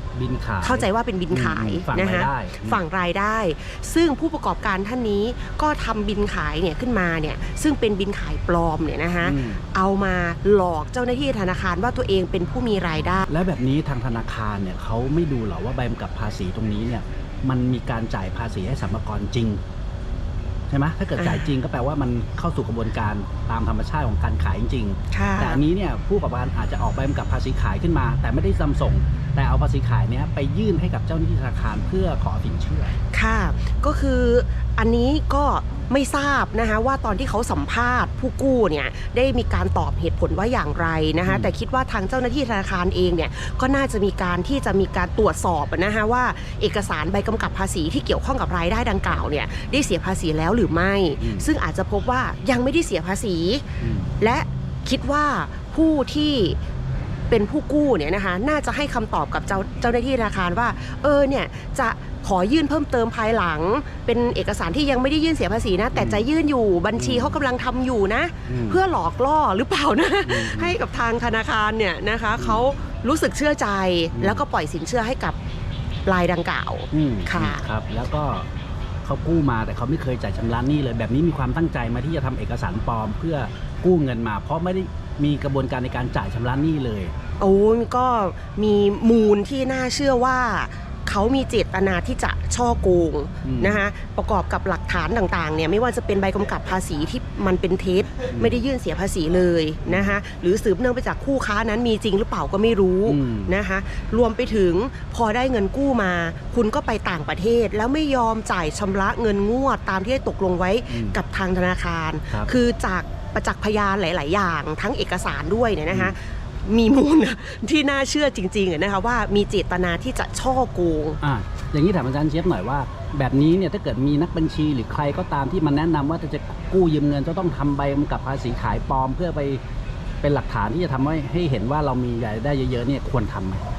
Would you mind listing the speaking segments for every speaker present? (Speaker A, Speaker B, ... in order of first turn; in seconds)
Speaker A: 0.1-2.8, 9.2-9.6, 13.3-19.6, 20.7-32.9, 51.2-51.5, 53.8-54.1, 65.9-66.2, 67.0-67.4, 68.5-68.8, 70.2-70.8, 72.4-72.6, 74.1-74.4, 76.9-78.5, 79.0-87.1, 93.4-93.8, 98.3-98.6, 99.8-100.2, 103.1-103.5, 110.9-111.2, 121.2-129.6, 130.2-133.6
Speaker B: 0.6-13.3, 21.2-21.5, 25.1-25.6, 33.1-53.7, 54.2-56.6, 57.3-75.4, 76.0-77.6, 87.4-121.2